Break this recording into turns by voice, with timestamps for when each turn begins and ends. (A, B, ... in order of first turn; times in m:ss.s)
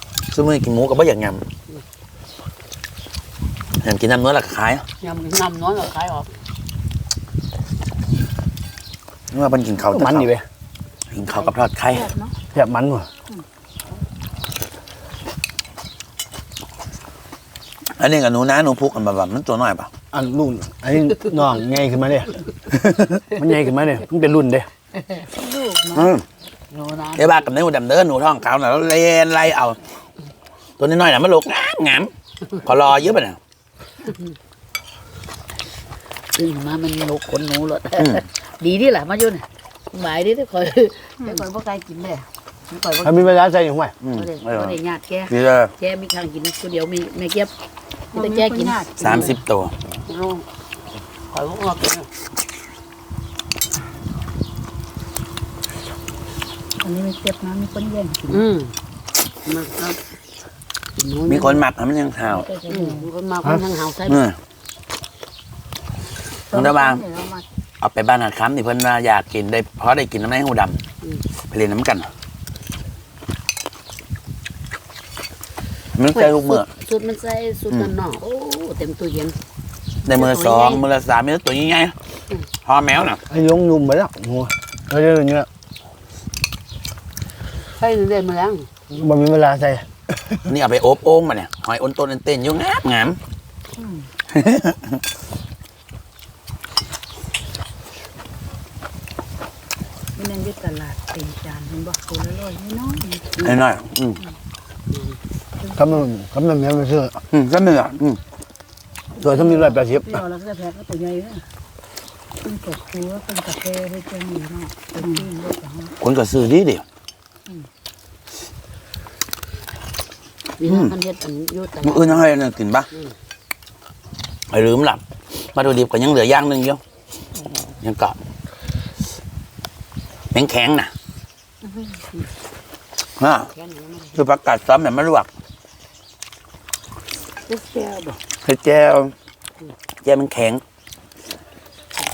0:00.3-0:01.4 A
0:03.8-0:04.8 A
0:05.0-0:06.4 B
0:09.3-0:10.3 A
0:09.9-0:10.4 C
0:11.1-0:12.1 A
0:11.9-0:12.4 D
0:12.5-0:13.1 C
0:18.0-0:19.9 A
0:20.1-0:24.7 C
0:25.2-0:26.1 D
0:25.9-0:26.2 A
0:26.7-0:27.5 B
0:27.2-0:29.8 A
0:30.8-0:33.4 A
0:36.3-0:43.3 B
0:38.0-0:38.2 A
0:43.0-0:43.9 C
0:44.0-0:44.8 A
0:44.1-0:47.5 B
0:45.3-0:45.7 A
0:48.1-0:49.4 D
0:48.1-0:49.4 B
0:49.0-0:49.7 A
0:50.0-0:50.4 B
0:51.3-0:52.1 B
0:56.8-0:58.4 D
0:58.3-0:58.7 B
0:59.4-1:00.0 B
1:01.0-1:01.6 B
1:01.3-1:02.5 A
1:02.3-1:03.1 D
1:02.6-1:04.2 B
1:04.1-1:04.4 A
1:06.5-1:07.4 D
1:06.5-1:07.0 A
1:07.8-1:10.8 A
1:11.5-1:12.1 A
1:16.0-1:16.7 A
1:16.1-1:19.4 B
1:20.0-1:21.9 A
1:20.0-1:20.8 B
1:22.6-1:23.2 A
1:23.3-1:25.5 C
1:27.8-1:28.8 B
1:28.9-1:30.4 C
1:30.4-1:33.2 A
1:33.8-1:34.1 D
1:34.3-1:35.0 A
1:40.1-1:43.2 D
1:43.4-1:44.2 A
1:44.9-1:45.2 B
1:45.6-1:46.0 D
1:45.8-1:47.2 C
1:47.3-1:48.2 A
1:49.2-1:51.4 D
1:49.2-1:50.2 C
1:52.4-1:55.9 D
1:56.0-1:56.8 A
2:00.6-2:02.3 B
2:00.6-2:00.9 A
2:01.8-2:02.9 A
2:04.5-2:05.0 A
2:05.5-2:06.8 A
2:07.8-2:08.2 A
2:10.3-2:10.9 A
2:11.6-2:12.0 D
2:13.2-2:13.5 A
2:13.5-2:14.2 B
2:14.2-2:15.3 A
2:17.5-2:18.1 D
2:18.4-2:19.1 A
2:20.0-2:20.6 A